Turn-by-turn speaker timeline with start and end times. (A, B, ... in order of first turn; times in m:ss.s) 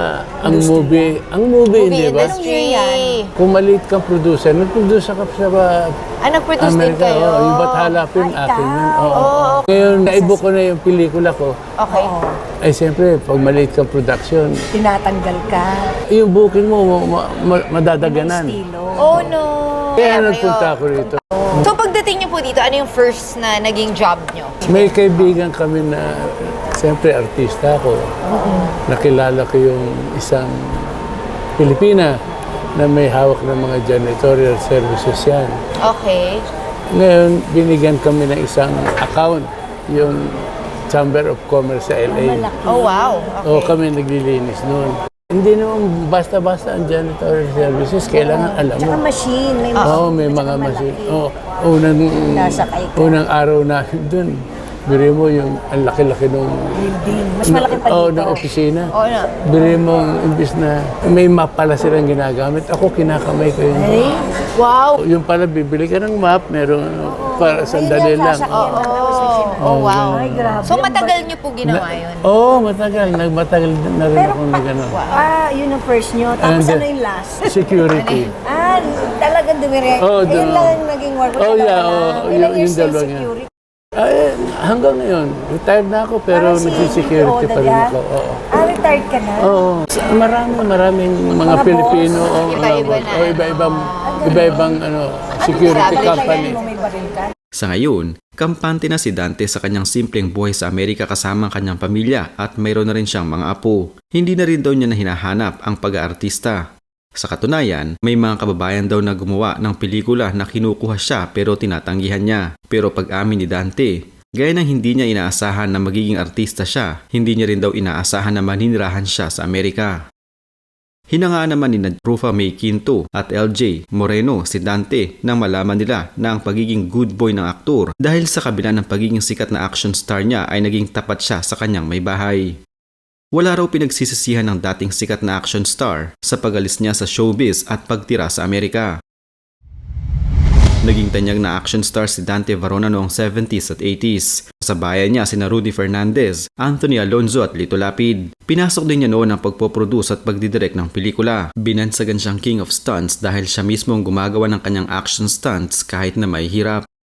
0:00.3-0:02.4 A
0:00.4-0:01.1 B
0:01.7-0:03.3 C
0:02.2-0:03.2 B
0:03.4-0:05.9 A
0:06.2-0:08.0 C
0:06.6-0:11.5 A
0:08.1-0:09.3 B
0:09.1-0:10.1 C
0:10.1-0:10.4 B
0:11.8-0:12.1 C
0:11.9-0:12.4 B
0:12.5-0:14.6 A
0:14.7-0:16.0 B
0:16.1-0:18.6 A
0:18.0-0:19.2 B
0:19.0-0:20.8 C
0:19.1-0:19.4 A
0:20.0-0:21.7 A
0:21.6-0:25.3 C
0:24.6-0:28.3 A
0:28.3-0:28.7 B
0:28.4-0:28.7 C
0:28.8-0:32.1 A
0:32.7-0:35.5 A
0:35.8-0:36.4 C
0:36.9-0:42.5 A
0:42.1-0:43.3 B
0:42.6-0:43.8 C
0:43.3-0:49.0 A
0:48.2-0:51.2 B
0:49.7-0:50.0 C
0:49.8-0:56.9 A
0:52.3-0:53.2 B
0:56.8-0:58.5 B
0:57.4-1:04.1 A
0:58.9-0:59.3 C
1:03.7-1:04.3 B
1:04.6-1:05.0 C
1:05.0-1:08.8 A
1:07.1-1:11.3 B
1:08.5-1:12.3 C
1:09.5-1:10.6 A
1:11.7-1:15.0 A
1:14.2-1:17.8 B
1:14.9-1:15.3 C
1:16.4-1:16.9 A
1:17.4-1:18.3 A
1:17.9-1:18.3 C
1:18.4-1:23.5 B
1:20.0-1:20.8 A
1:21.4-1:23.3 A
1:24.0-1:28.5 A
1:26.3-1:27.9 B
1:28.5-1:29.6 B
1:29.4-1:36.6 A
1:31.4-1:32.3 B
1:32.4-1:34.6 C
1:34.0-1:34.8 B
1:35.4-1:37.3 B
1:35.4-1:36.6 C
1:37.5-1:46.6 D
1:47.2-2:00.0 D
2:01.1-2:12.6 D
2:13.3-2:19.0 D
2:20.8-2:36.8 D